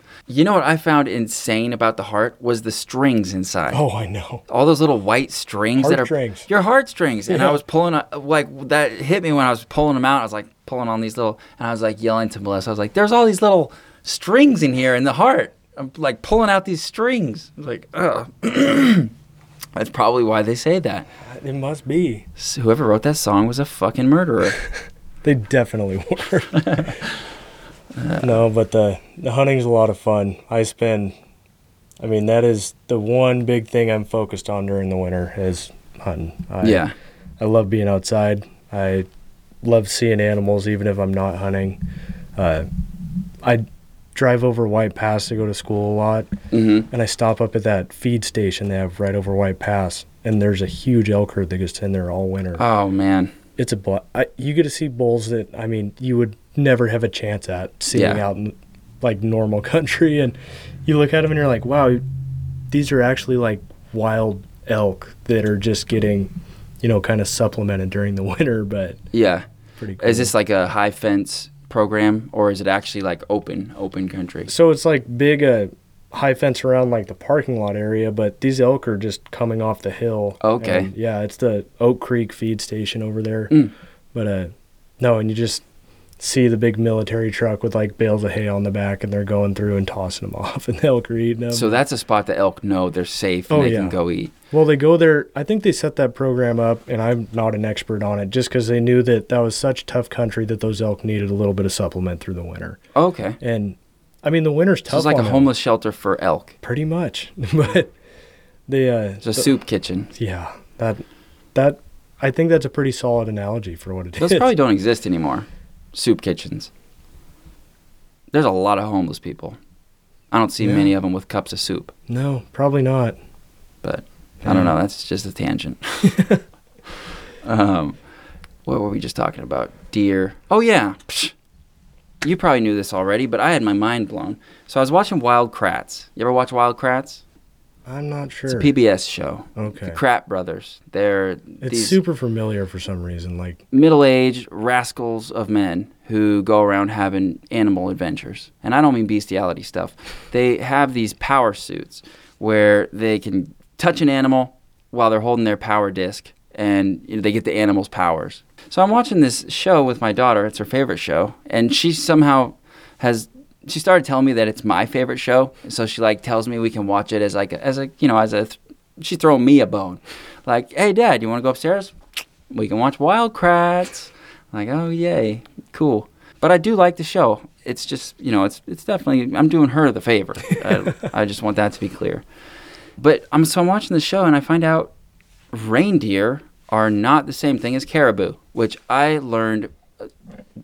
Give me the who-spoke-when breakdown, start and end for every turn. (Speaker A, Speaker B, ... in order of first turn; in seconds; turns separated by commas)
Speaker A: 0.3-3.8, Speaker B: 3.7-4.4, Speaker A: 4.5-19.1, Speaker B: 5.8-6.5, Speaker B: 7.3-7.6, Speaker A: 19.8-21.1, Speaker B: 21.3-22.3, Speaker A: 22.4-24.6, Speaker B: 25.2-26.9, Speaker A: 26.5-27.1, Speaker A: 28.0-28.3, Speaker B: 28.2-31.1, Speaker B: 32.0-36.9, Speaker A: 36.6-36.9, Speaker B: 37.4-39.1, Speaker B: 39.6-41.8, Speaker B: 42.4-42.7, Speaker B: 43.4-46.3, Speaker A: 46.5-46.9, Speaker B: 46.9-52.6, Speaker A: 52.6-53.3, Speaker B: 53.6-62.0, Speaker A: 57.9-58.2, Speaker B: 62.7-69.0, Speaker A: 69.1-69.4, Speaker B: 69.8-70.3, Speaker A: 70.0-74.5, Speaker B: 74.5-83.5, Speaker A: 80.4-80.9, Speaker B: 84.1-85.6, Speaker B: 86.2-91.8, Speaker A: 91.5-94.3, Speaker B: 93.5-94.0, Speaker B: 94.5-102.8, Speaker A: 103.0-103.4, Speaker B: 103.4-105.5, Speaker A: 104.9-106.5, Speaker B: 106.6-107.9, Speaker B: 108.7-109.5, Speaker A: 109.2-110.1, Speaker B: 110.2-114.5, Speaker A: 114.2-116.7, Speaker A: 118.3-119.6, Speaker A: 120.3-121.9, Speaker B: 120.6-120.9, Speaker B: 122.1-123.2, Speaker A: 123.8-126.2, Speaker B: 124.4-124.7, Speaker B: 126.1-126.4, Speaker A: 127.4-128.0, Speaker A: 128.7-131.3, Speaker A: 132.2-137.2, Speaker B: 137.9-138.7, Speaker A: 138.5-142.0, Speaker B: 139.6-140.0, Speaker B: 141.6-143.6, Speaker A: 143.7-172.0, Speaker A: 172.5-182.2, Speaker A: 183.0-184.9, Speaker A: 185.5-189.7